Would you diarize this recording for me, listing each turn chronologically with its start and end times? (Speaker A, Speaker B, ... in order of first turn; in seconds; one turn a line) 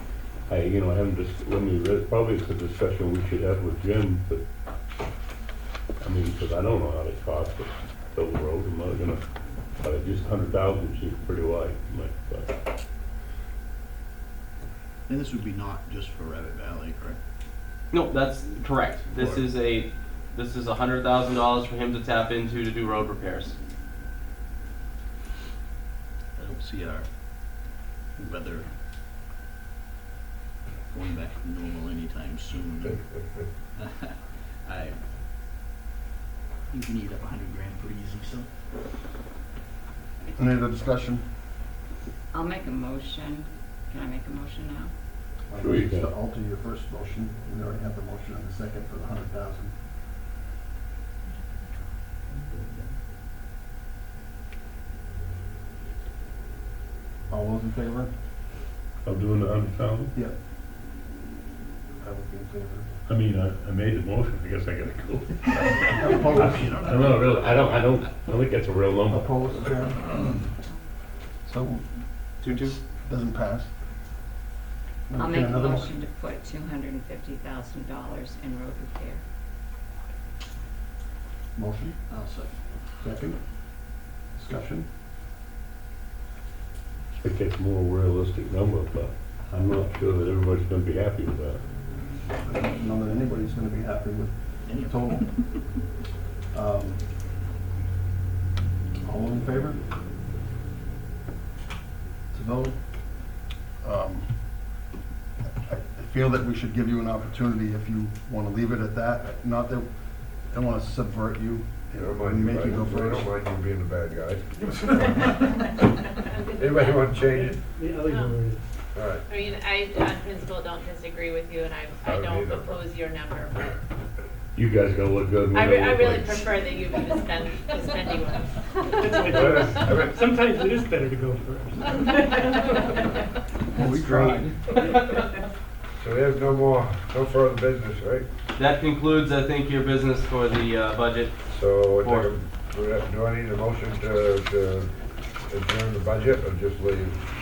Speaker A: 0.5-4.4
Speaker A: 6.0-9.2
Speaker A: 9.8-12.5
Speaker B: 15.1-17.2
Speaker C: 17.9-23.6
Speaker B: 26.4-27.1
Speaker B: 28.2-28.7
Speaker B: 30.9-33.0
Speaker B: 33.8-35.0
Speaker B: 36.7-38.5
Speaker D: 40.4-41.2
Speaker E: 42.3-44.9
Speaker D: 45.5-49.7
Speaker A: 45.6-46.1
Speaker B: 52.5-52.9
Speaker D: 57.3-58.1
Speaker A: 59.0-60.1
Speaker D: 62.0-63.0
Speaker A: 63.1-69.4
Speaker D: 65.9-66.7
Speaker B: 65.9-67.8
Speaker D: 69.1-70.3
Speaker D: 71.5-71.8
Speaker C: 72.4-72.8
Speaker D: 72.4-73.7
Speaker D: 75.1-76.0
Speaker E: 75.2-79.2
Speaker D: 81.6-82.0
Speaker B: 82.1-82.5
Speaker D: 83.0-83.4
Speaker D: 84.4-84.9
Speaker A: 87.2-91.6
Speaker D: 92.4-95.3
Speaker B: 94.7-95.2
Speaker D: 96.5-97.0
Speaker D: 99.0-99.8
Speaker D: 102.3-102.8
Speaker D: 103.8-104.3
Speaker D: 105.7-109.9
Speaker D: 110.5-113.3
Speaker F: 112.0-115.0
Speaker G: 114.7-115.4
Speaker H: 116.3-117.0
Speaker F: 116.5-117.6
Speaker G: 117.2-118.6
Speaker F: 119.0-119.2
Speaker H: 119.3-123.7
Speaker F: 122.0-122.9
Speaker A: 124.5-126.6
Speaker H: 125.5-129.4
Speaker G: 129.0-132.2
Speaker F: 129.2-130.3
Speaker D: 133.7-134.6
Speaker C: 133.8-135.2
Speaker F: 136.0-138.3
Speaker C: 138.6-141.3
Speaker F: 141.5-144.9
Speaker C: 142.0-142.3
Speaker F: 145.5-147.2